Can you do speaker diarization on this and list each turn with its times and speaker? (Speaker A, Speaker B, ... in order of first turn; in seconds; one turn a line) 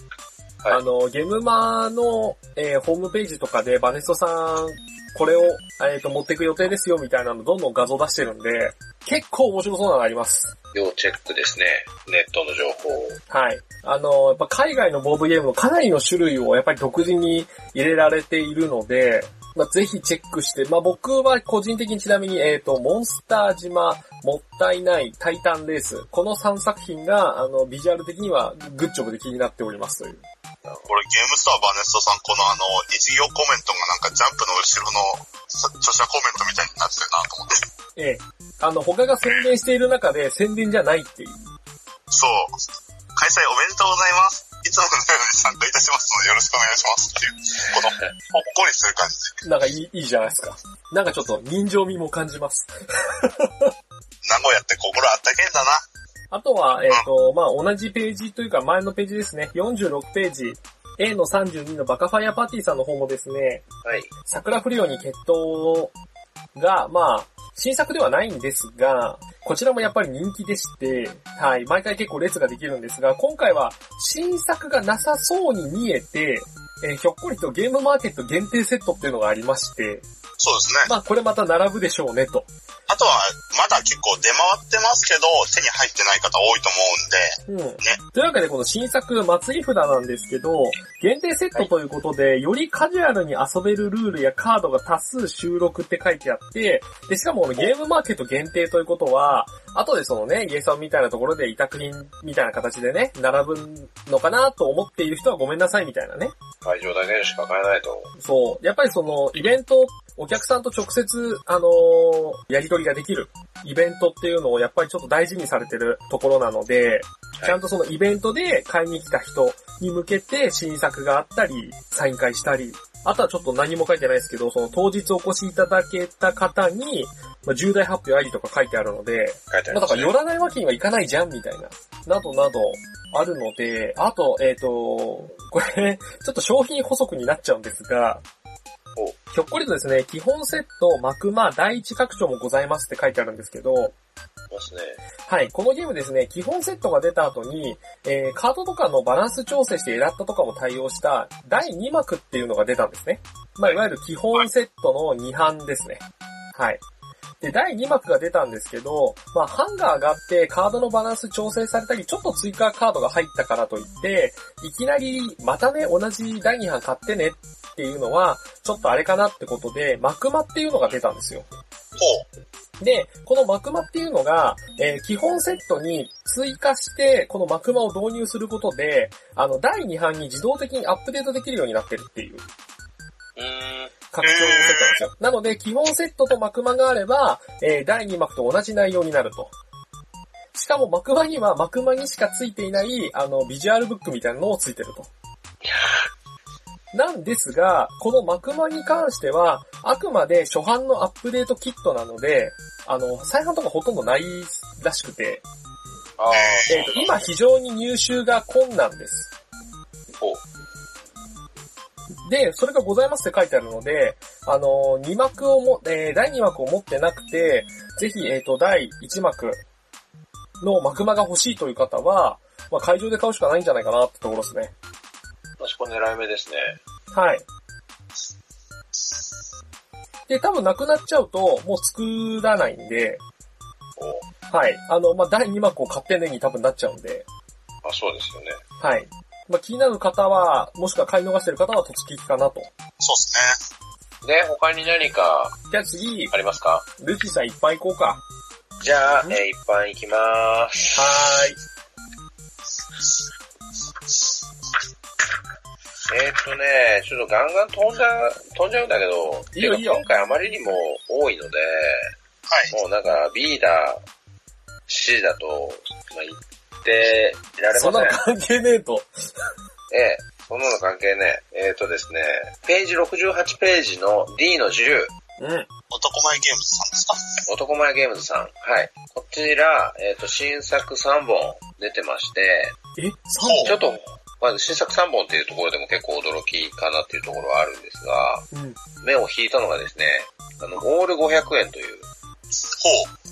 Speaker A: 0.7-10.5
Speaker B: 10.7-13.2
Speaker A: 13.3-30.2
Speaker B: 30.6-30.9
Speaker C: 30.9-37.6
Speaker A: 38.0-41.5
Speaker C: 42.1-42.5
Speaker C: 43.2-49.4
Speaker A: 49.4-53.7
Speaker C: 54.2-55.8
Speaker A: 56.3-63.6
Speaker B: 63.8-64.1
Speaker A: 64.3-65.9
Speaker A: 66.5-80.1
Speaker C: 80.4-80.9
Speaker A: 80.9-82.5
Speaker C: 82.9-88.0
Speaker A: 87.5-106.3
Speaker B: 106.6-108.1
Speaker A: 108.2-138.2
Speaker B: 129.5-130.1
Speaker A: 139.3-143.9
Speaker B: 144.5-145.0
Speaker A: 145.3-156.0
Speaker A: 156.6-156.8
Speaker A: 157.4-171.5
Speaker C: 172.0-172.3
Speaker A: 172.8-182.5
Speaker B: 183.4-183.9
Speaker A: 184.1-189.5
Speaker C: 184.2-185.0
Speaker A: 190.6-195.1
Speaker A: 196.9-205.4
Speaker B: 206.2-207.1
Speaker C: 206.3-207.1
Speaker A: 206.7-209.3
Speaker A: 212.3-219.6
Speaker A: 220.6-224.7
Speaker B: 225.6-226.8
Speaker A: 227.1-227.4
Speaker A: 230.3-233.2
Speaker B: 234.0-234.3
Speaker A: 234.5-237.3
Speaker B: 237.8-238.6
Speaker A: 238.8-242.7
Speaker C: 243.0-243.6
Speaker B: 244.2-245.6
Speaker A: 245.7-246.3
Speaker B: 246.3-246.9
Speaker A: 247.0-248.2
Speaker B: 248.8-251.1
Speaker A: 250.9-251.6
Speaker B: 256.1-262.1
Speaker A: 259.6-260.0
Speaker C: 262.5-262.7
Speaker B: 262.7-264.0
Speaker B: 264.9-268.2
Speaker A: 267.7-269.1
Speaker B: 269.9-275.1
Speaker A: 275.4-275.7
Speaker C: 275.9-277.4
Speaker B: 277.5-282.8
Speaker A: 283.0-283.8
Speaker C: 283.4-283.7
Speaker B: 283.6-288.5
Speaker A: 288.5-288.8
Speaker B: 289.0-292.1
Speaker C: 292.7-293.1